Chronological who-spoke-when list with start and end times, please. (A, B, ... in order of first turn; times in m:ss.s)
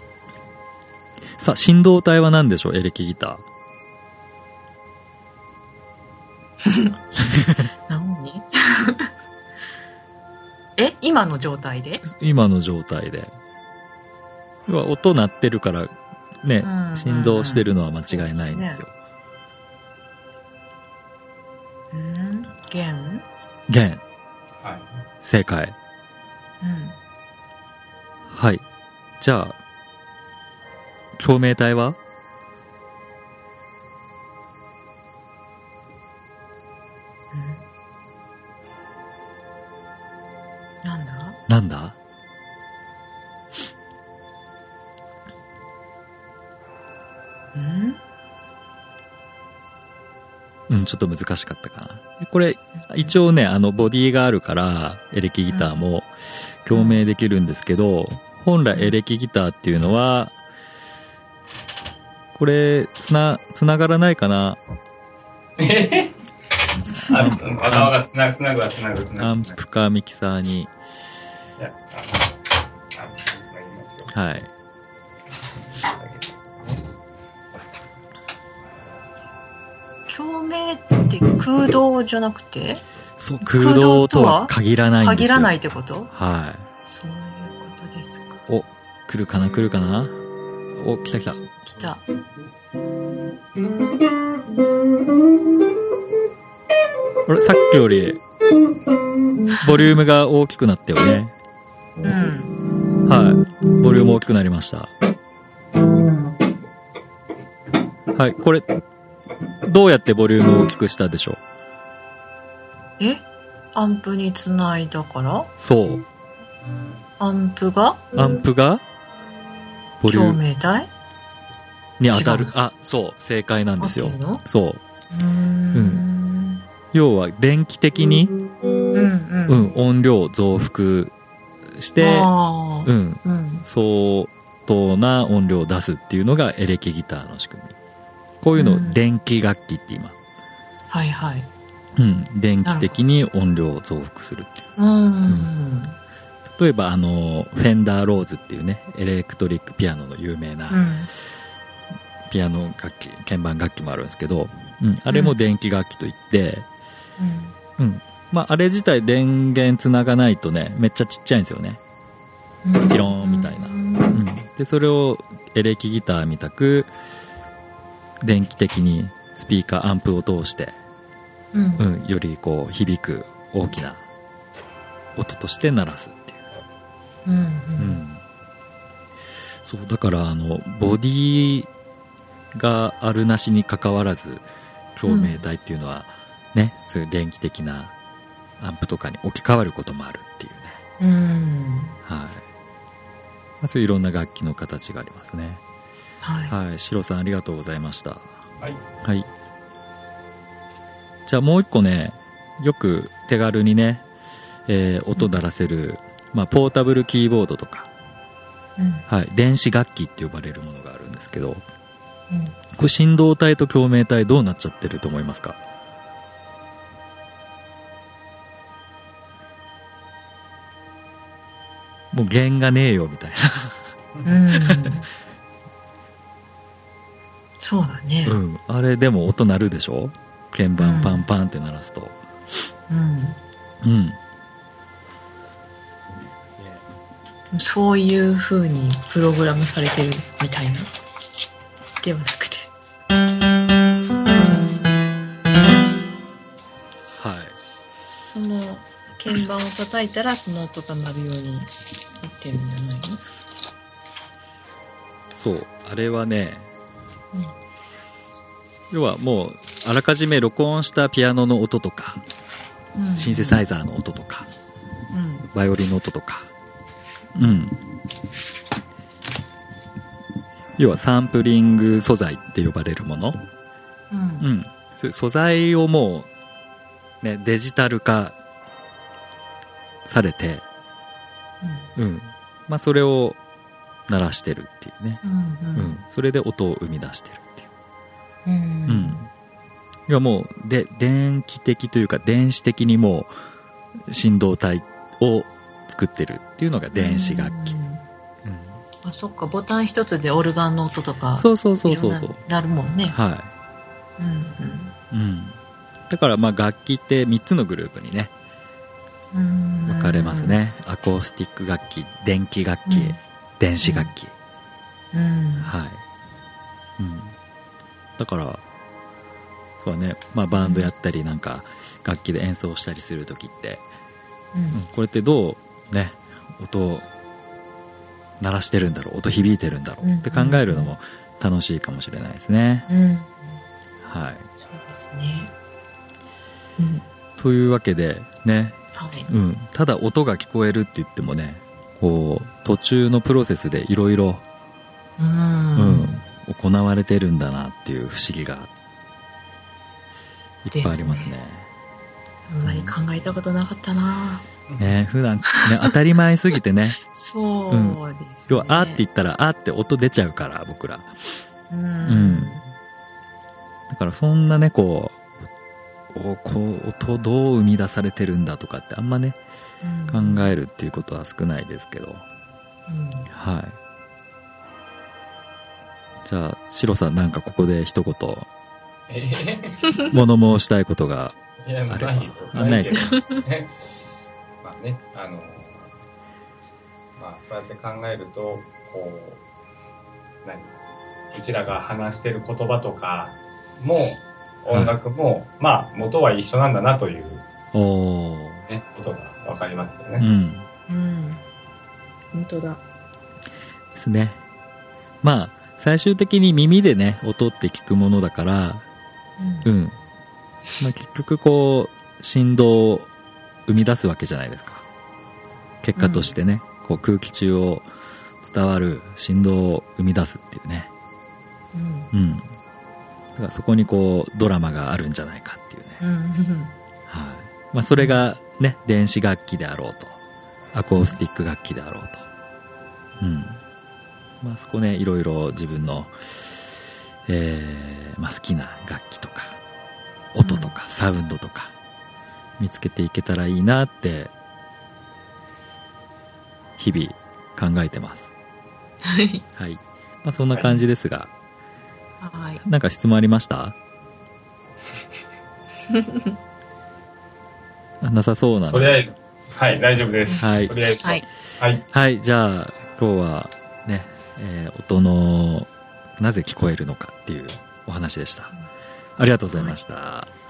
0:01.3-0:03.4 A
0:06.6-0:06.9 B
0:07.2-0:07.7 A
0:07.9-0:09.1 B
0:10.8-0:12.0 B
0:12.1-0:13.3 A
0:14.7-0:18.9 A
0:16.6-0:18.8 B
0:21.9-0:23.3 B
0:23.7-0:24.0 A
0:24.6-0:24.9 C
0:25.2-0:25.8 A
0:26.6-0:27.0 B
0:28.3-0:28.6 A
0:29.2-0:29.6 A
0:31.2-0:32.0 A
0:37.3-0:37.6 B
0:40.8-0:41.4 B
0:41.5-0:42.0 A
0:47.5-0:48.0 B
0:50.7-0:56.1 A
0:52.8-0:53.1 B
0:55.5-0:55.8 B
0:56.6-1:00.4 A
0:56.7-0:57.0 B
1:02.4-1:04.6 A
1:05.6-1:06.2 C
1:07.0-1:09.6 C
1:07.1-1:08.0 A
1:09.2-1:10.7 A
1:11.6-1:12.4 C
1:13.0-1:14.1 C
1:14.1-1:14.5 A
1:15.8-1:16.8 C
1:20.1-1:22.8 B
1:23.2-1:25.6 A
1:23.4-1:26.1 B
1:26.1-1:26.6 A
1:26.8-1:28.4 B
1:28.5-1:30.2 A
1:30.7-1:31.4 A
1:31.6-1:32.0 B
1:37.3-1:38.2 A
1:39.6-1:41.3 A
1:42.0-1:42.6 B
1:43.1-1:44.9 A
1:48.1-1:48.6 A
1:49.6-1:51.4 A
1:53.0-1:53.2 B
1:53.8-1:55.5 B
1:55.6-1:56.0 A
1:57.2-1:58.1 B
1:58.1-1:58.8 A
2:00.0-2:00.4 A
2:00.0-2:00.9 B
2:02.0-2:04.8 A
2:02.1-2:02.5 B
2:03.8-2:04.4 B
2:05.1-2:06.6 B
2:05.8-2:06.0 A
2:06.9-2:08.3 A
2:08.9-2:09.7 B
2:09.5-2:11.1 A
2:11.7-2:12.3 A
2:12.0-2:13.7 B
2:12.8-2:17.8 A
2:18.4-2:20.2 A
2:18.6-2:19.0 B
2:20.9-2:21.5 B
2:22.0-2:24.7 A
2:22.6-2:23.0 B
2:24.8-2:26.0 B
2:26.5-2:30.8 A
2:30.7-2:31.1 B
2:32.3-2:36.7 A
2:35.1-2:35.4 B
2:37.2-2:37.6 B
2:37.8-2:41.8 A
2:42.6-2:44.2 B
2:42.9-2:46.9 A
2:48.2-2:50.8 A
2:51.5-2:51.9 B
2:51.8-2:54.0 A
2:55.2-2:56.4 A
2:57.3-2:58.0 B
2:57.8-2:58.2 A
2:59.6-3:01.7 A
3:02.5-3:04.4 A
3:05.0-3:07.9 A
3:05.1-3:05.4 B
3:08.6-3:10.8 A
3:11.0-3:12.0 B
3:12.0-3:12.4 A
3:13.6-3:15.6 A
3:16.2-3:16.6 B
3:16.5-3:18.4 A
3:19.0-3:19.3 A
3:21.3-3:24.0 A
3:24.7-3:27.9 A
3:25.2-3:25.4 B
3:28.8-3:29.1 B
3:29.1-3:31.6 A
3:32.3-3:32.6 B
3:32.7-3:35.6 A
3:42.1-3:43.8 A
3:44.2-3:45.1 B
3:44.5-3:45.0 A
3:47.6-3:48.4 B
3:48.3-3:52.2 A
3:50.8-3:51.3 B
3:52.9-3:53.4 B
3:53.8-3:54.2 A
3:56.6-3:56.8 A
3:57.5-4:00.9 B
4:02.0-4:02.7 B
4:07.2-4:07.6 A
4:08.2-4:13.2 B
4:15.4-4:16.7 A
4:18.9-4:22.2 A
4:23.0-4:23.6 B
4:23.2-4:24.5 A
4:25.1-4:25.5 B
4:25.5-4:26.5 A
4:27.4-4:27.8 A
4:30.8-4:33.4 A
4:34.1-4:34.5 B
4:34.4-4:36.3 A
4:37.2-4:38.4 A
4:40.0-4:40.6 A
4:41.6-4:41.9 B
4:42.0-4:43.4 A
4:44.1-4:45.2 A
4:45.2-4:46.0 B
4:45.8-4:47.7 A
4:48.5-4:49.2 B
4:48.9-4:49.3 A
4:50.1-4:53.3 A
4:54.1-4:57.8 A
4:56.9-4:58.0 B
4:58.4-4:58.8 A
4:59.0-5:03.2 B
5:01.4-5:02.4 A
5:03.1-5:03.5 A
5:04.2-5:05.0 B
5:05.1-5:05.6 A
5:06.1-5:08.3 A
5:09.3-5:10.6 B
5:09.9-5:14.3 A
5:12.9-5:13.2 B
5:13.8-5:14.1 B
5:15.1-5:15.7 B
5:15.6-5:16.0 A
5:17.0-5:17.4 A
5:18.2-5:18.6 A
5:19.8-5:23.8 A
5:20.5-5:20.9 B
5:24.5-5:24.8 B
5:24.7-5:27.1 A
5:28.4-5:32.9 A
5:30.0-5:31.0 B
5:32.9-5:33.6 B
5:34.0-5:34.5 A
5:34.6-5:35.5 B
5:36.8-5:37.0 B
5:37.4-5:38.8 A
5:39.0-5:39.3 B
5:39.3-5:44.4 A
5:45.2-5:46.2 B
5:45.8-5:48.7 A
5:50.6-5:51.7 A
5:50.7-5:51.3 B
5:52.5-5:54.4 B
5:52.6-5:53.0 A
5:54.8-5:57.0 A
5:55.5-5:55.9 B
5:57.0-5:59.0 B
5:57.7-6:01.1 A
6:01.7-6:02.6 B
6:02.0-6:02.6 A
6:03.9-6:05.2 A
6:06.1-6:09.4 A
6:09.8-6:10.5 B
6:10.1-6:12.2 A
6:12.9-6:13.3 B
6:13.3-6:13.8 A
6:16.2-6:18.5 A
6:19.1-6:20.1 C
6:20.1-6:23.2 A
6:21.6-6:24.0 C
6:22.9-6:23.4 B
6:24.6-6:25.9 C
6:27.2-6:29.4 C
6:30.4-6:30.7 C
6:31.3-6:37.5 C
6:34.7-6:35.0 A
6:37.7-6:38.6 A
6:38.7-6:40.3 C
6:40.2-6:40.7 A
6:40.9-6:41.4 B
6:42.3-6:42.8 B
6:43.9-6:44.4 A
6:45.2-6:48.8 A
6:49.4-6:49.7 B
6:49.6-6:50.0 A
6:50.8-6:53.1 A
6:53.7-6:54.8 A
6:55.8-6:57.9 A
6:56.0-6:56.4 B
6:58.4-7:00.9 A
7:01.7-7:02.1 B
7:02.1-7:02.5 A
7:03.4-7:06.0 A
7:06.0-7:06.7 B
7:07.1-7:10.2 A
7:07.9-7:08.2 B
7:10.7-7:12.2 A
7:13.2-7:13.6 A
7:14.4-7:16.2 A
7:17.3-7:19.6 A
7:20.3-7:21.7 A
7:20.4-7:20.8 B
7:22.6-7:24.3 A
7:26.8-7:28.3 A
7:29.0-7:29.4 B
7:29.6-7:31.3 A
7:32.2-7:32.6 B
7:32.6-7:33.8 A
7:35.9-7:36.3 B
7:38.0-7:39.0 A
7:38.7-7:41.8 C
7:40.3-7:41.2 B
7:40.4-7:40.8 A
7:41.9-7:48.5 A
7:49.2-7:50.3 A
7:49.5-7:49.8 B